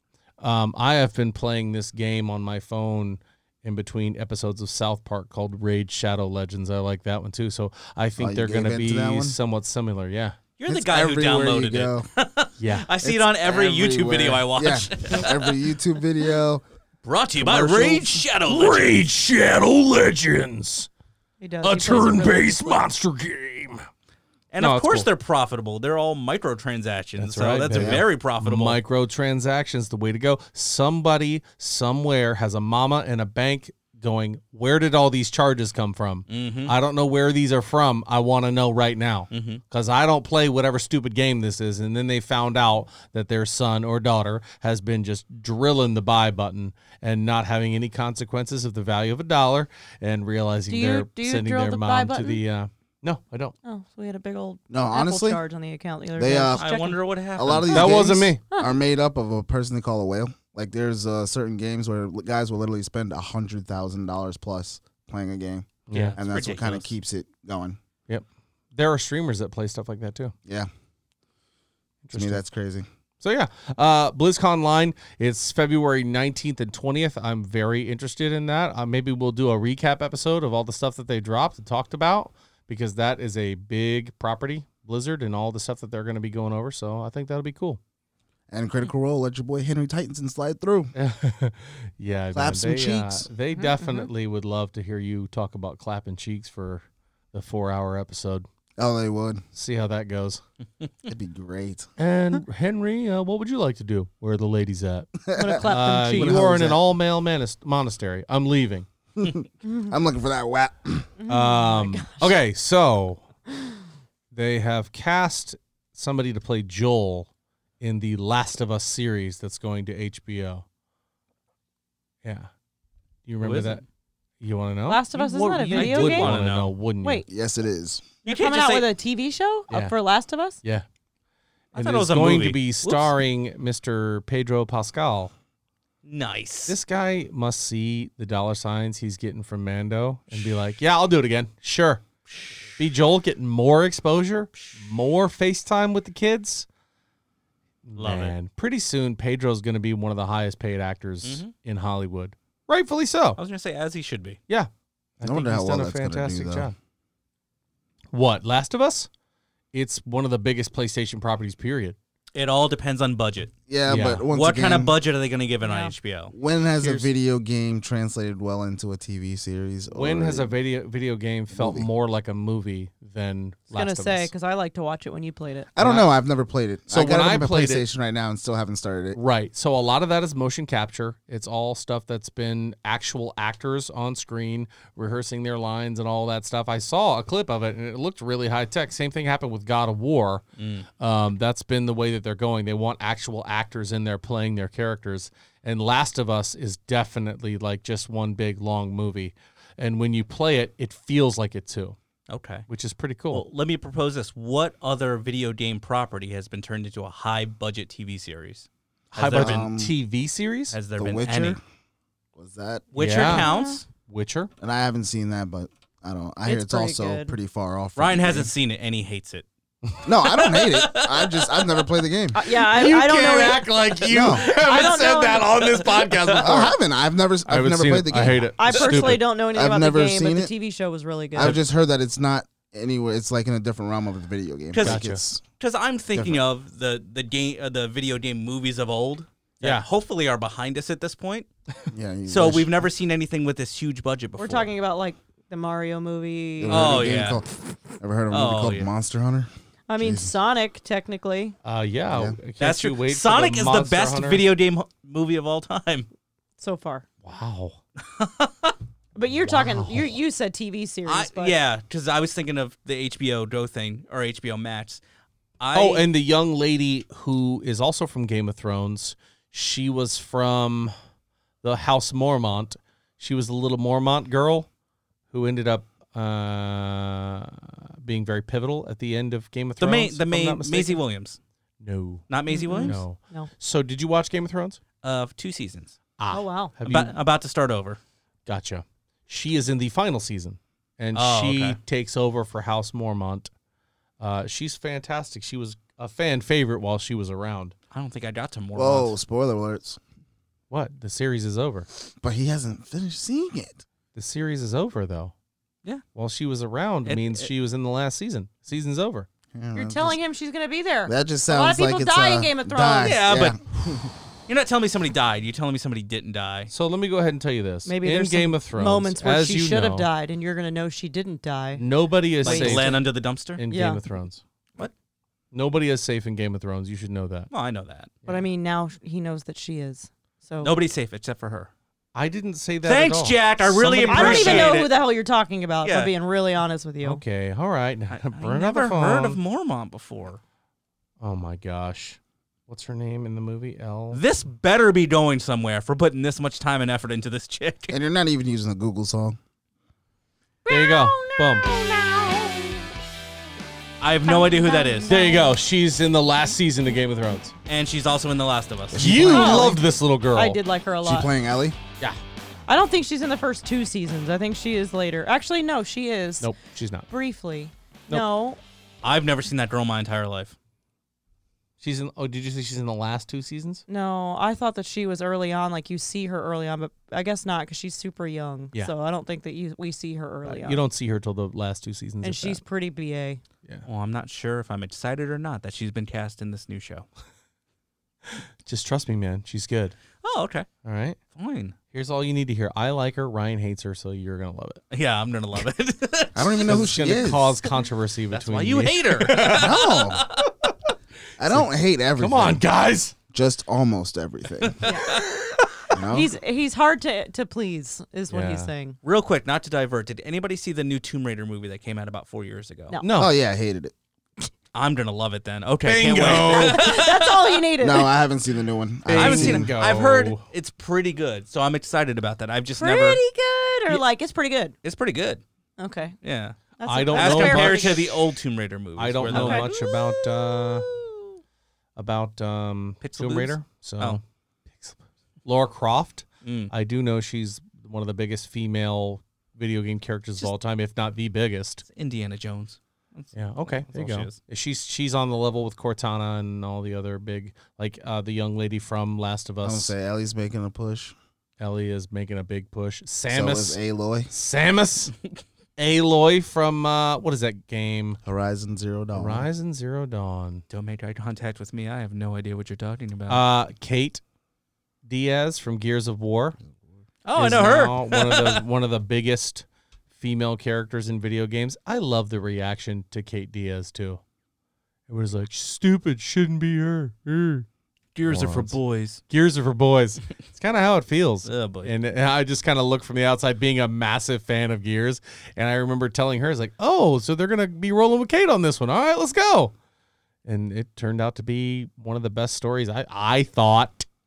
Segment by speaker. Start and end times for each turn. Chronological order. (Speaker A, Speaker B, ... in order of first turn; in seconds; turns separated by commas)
Speaker A: 0.4-10.4, Speaker B: 8.2-9.4, Speaker C: 10.6-15.5, Speaker B: 10.7-12.1, Speaker A: 12.6-12.9, Speaker B: 13.0-16.6, Speaker C: 17.0-19.1, Speaker B: 17.4-18.2, Speaker A: 18.4-20.9, Speaker D: 21.4-22.9, Speaker A: 21.6-23.8, Speaker C: 24.5-28.8, Speaker A: 24.6-25.1, Speaker A: 27.2-53.5, Speaker B: 27.7-28.0, Speaker C: 36.3-36.7, Speaker C: 39.3-39.6, Speaker D: 50.7-52.4, Speaker D: 53.6-57.0, Speaker B: 54.7-55.4, Speaker B: 56.1-56.7, Speaker C: 56.6-58.1, Speaker B: 57.3-67.8, Speaker A: 57.7-58.4, Speaker A: 65.9-66.2, Speaker C: 65.9-66.9, Speaker A: 68.1-70.3, Speaker A: 72.0-72.4, Speaker B: 72.1-72.9, Speaker A: 73.2-87.8, Speaker B: 88.5-90.9, Speaker A: 90.9-98.5, Speaker B: 92.3-93.3, Speaker D: 93.6-94.1, Speaker B: 98.8-99.4, Speaker A: 99.5-100.4, Speaker B: 101.1-101.9, Speaker A: 102.0-108.9, Speaker B: 105.3-106.9, Speaker D: 105.3-106.4, Speaker B: 109.2-111.1, Speaker D: 111.2-112.3, Speaker A: 111.3-113.3, Speaker A: 114.3-120.6, Speaker A: 122.2-122.5, Speaker A: 123.2-123.8, Speaker C: 123.4-123.8, Speaker A: 124.4-127.2, Speaker D: 124.9-126.3, Speaker C: 125.1-126.7, Speaker B: 127.3-128.1, Speaker C: 128.2-128.9, Speaker D: 128.2-130.6, Speaker A: 129.7-129.9, Speaker C: 131.7-133.1, Speaker A: 131.7-135.3, Speaker C: 136.0-136.8, Speaker A: 136.7-142.0, Speaker C: 142.3-142.8, Speaker A: 142.8-146.7, Speaker A: 147.8-153.4, Speaker C: 148.0-148.3, Speaker C: 151.2-151.5, Speaker C: 153.4-154.4, Speaker A: 154.5-156.7, Speaker B: 155.2-156.7, Speaker A: 158.1-159.1, Speaker A: 159.7-162.0, Speaker C: 162.3-163.5, Speaker B: 163.7-164.9, Speaker A: 163.9-164.3, Speaker C: 164.3-166.3, Speaker D: 165.6-165.9, Speaker B: 166.3-170.5, Speaker A: 166.8-167.1, Speaker A: 169.9-174.3, Speaker B: 171.5-171.9, Speaker D: 173.7-175.7, Speaker B: 175.7-179.2, Speaker A: 175.8-176.1, Speaker A: 176.9-177.8, Speaker A: 179.2-190.4, Speaker C: 190.6-190.9, Speaker A: 191.0-202.0, Speaker C: 202.3-202.7, Speaker A: 202.7-203.4, Speaker C: 203.3-209.7, Speaker A: 209.1-210.8, Speaker B: 209.2-209.9, Speaker C: 210.7-211.6, Speaker B: 211.0-211.6, Speaker B: 212.3-212.8, Speaker C: 212.9-213.8, Speaker A: 213.0-213.5, Speaker D: 213.2-213.8, Speaker A: 214.1-214.5, Speaker B: 214.6-218.5, Speaker D: 216.4-217.3, Speaker C: 218.0-219.4, Speaker B: 220.0-222.4, Speaker C: 220.2-221.8, Speaker D: 222.3-223.7, Speaker A: 222.5-226.7, Speaker B: 224.1-224.5, Speaker C: 224.2-225.0, Speaker D: 224.6-225.5, Speaker C: 225.6-226.4, Speaker B: 226.4-230.5, Speaker A: 227.4-229.2, Speaker D: 228.6-231.6, Speaker B: 231.3-235.4, Speaker C: 234.7-235.1, Speaker A: 234.8-235.2, Speaker C: 235.6-241.5, Speaker B: 236.1-236.4, Speaker B: 241.9-242.7, Speaker C: 242.2-244.7, Speaker D: 244.4-247.0, Speaker B: 246.6-247.4, Speaker C: 246.7-247.4, Speaker B: 248.0-250.3, Speaker C: 248.3-248.9, Speaker D: 249.9-251.6, Speaker A: 251.6-254.4, Speaker B: 252.1-252.4, Speaker C: 252.6-256.1, Speaker D: 256.6-257.1, Speaker A: 257.2-257.8, Speaker C: 258.0-258.7, Speaker D: 259.1-261.6, Speaker A: 259.4-260.1, Speaker C: 261.1-265.0, Speaker C: 265.6-266.1, Speaker A: 265.7-270.9, Speaker A: 271.6-274.7, Speaker A: 275.3-281.0, Speaker C: 279.8-281.4, Speaker A: 281.8-284.8, Speaker C: 282.3-283.0, Speaker D: 282.5-283.5, Speaker C: 285.0-286.0, Speaker A: 286.2-287.1, Speaker D: 286.3-286.7, Speaker C: 286.9-288.0, Speaker A: 288.4-293.5, Speaker C: 291.1-291.8, Speaker A: 294.2-297.7, Speaker C: 297.9-299.1, Speaker B: 298.7-300.0, Speaker A: 300.7-301.9, Speaker B: 302.2-303.8, Speaker A: 304.1-305.3, Speaker A: 306.1-309.3, Speaker C: 307.0-307.5, Speaker B: 309.5-310.2, Speaker D: 309.7-313.1, Speaker B: 311.1-314.1, Speaker C: 313.0-313.7, Speaker C: 314.5-316.7, Speaker A: 316.7-320.1, Speaker D: 317.9-321.8, Speaker A: 321.8-324.4, Speaker D: 322.4-323.0, Speaker C: 322.4-323.6, Speaker D: 323.7-324.0, Speaker A: 325.5-327.5, Speaker C: 327.5-328.1, Speaker D: 328.2-330.7, Speaker C: 330.6-331.7, Speaker A: 332.1-334.8, Speaker C: 332.8-334.9, Speaker D: 334.1-337.2, Speaker C: 335.8-336.1, Speaker A: 337.0-339.4, Speaker C: 338.1-340.4, Speaker A: 341.2-344.2, Speaker C: 344.1-348.0, Speaker B: 347.9-349.4, Speaker D: 350.6-352.9, Speaker A: 350.7-351.7, Speaker C: 354.0-355.2, Speaker D: 354.2-355.5, Speaker A: 355.1-357.5, Speaker C: 357.7-359.5, Speaker B: 358.9-359.8, Speaker A: 359.0-360.6, Speaker D: 359.2-359.8, Speaker D: 360.3-361.3, Speaker B: 361.0-361.8, Speaker D: 362.7-366.5, Speaker A: 366.4-367.1, Speaker D: 367.1-368.6, Speaker C: 369.0-370.5, Speaker A: 371.8-373.8, Speaker D: 373.9-380.8, Speaker A: 380.4-382.6, Speaker D: 382.2-383.4, Speaker C: 383.9-387.1, Speaker A: 388.6-390.0, Speaker C: 390.2-390.7, Speaker A: 390.8-391.2, Speaker C: 391.3-391.8, Speaker A: 391.9-394.8, Speaker C: 394.9-396.7, Speaker B: 396.3-397.6, Speaker A: 396.6-399.9, Speaker C: 398.3-400.4, Speaker B: 399.5-400.2, Speaker B: 401.4-402.6, Speaker A: 401.4-403.1, Speaker B: 403.3-404.9, Speaker C: 404.6-405.2, Speaker D: 404.8-405.2, Speaker B: 405.9-406.3, Speaker D: 406.1-409.0, Speaker A: 408.3-408.7, Speaker C: 409.0-412.9, Speaker A: 413.0-413.3, Speaker B: 413.1-413.9, Speaker C: 414.7-417.4, Speaker A: 415.8-416.9, Speaker D: 416.5-418.1, Speaker B: 417.8-419.7, Speaker A: 419.1-420.4, Speaker C: 419.1-423.2, Speaker D: 422.8-424.7, Speaker C: 424.8-425.4, Speaker D: 425.8-426.1, Speaker C: 426.2-426.6, Speaker D: 426.8-428.1, Speaker A: 426.8-428.1, Speaker C: 427.1-429.9, Speaker A: 429.0-430.9, Speaker D: 429.3-431.3, Speaker A: 431.9-434.2, Speaker C: 433.0-434.2, Speaker A: 434.7-441.8, Speaker C: 436.4-436.7, Speaker C: 441.9-443.3, Speaker A: 443.3-449.9, Speaker C: 443.8-444.4, Speaker B: 449.6-451.1, Speaker A: 451.6-453.8, Speaker B: 453.3-454.3, Speaker A: 454.3-455.1, Speaker A: 455.8-458.2, Speaker B: 458.2-459.5, Speaker A: 459.1-460.6, Speaker C: 460.7-463.4, Speaker A: 463.3-464.2, Speaker A: 465.1-466.6, Speaker C: 467.2-468.6, Speaker A: 467.3-474.2, Speaker A: 475.1-477.6, Speaker C: 478.1-479.2, Speaker A: 478.3-478.8, Speaker A: 479.3-489.7, Speaker C: 481.4-481.9, Speaker A: 490.4-494.1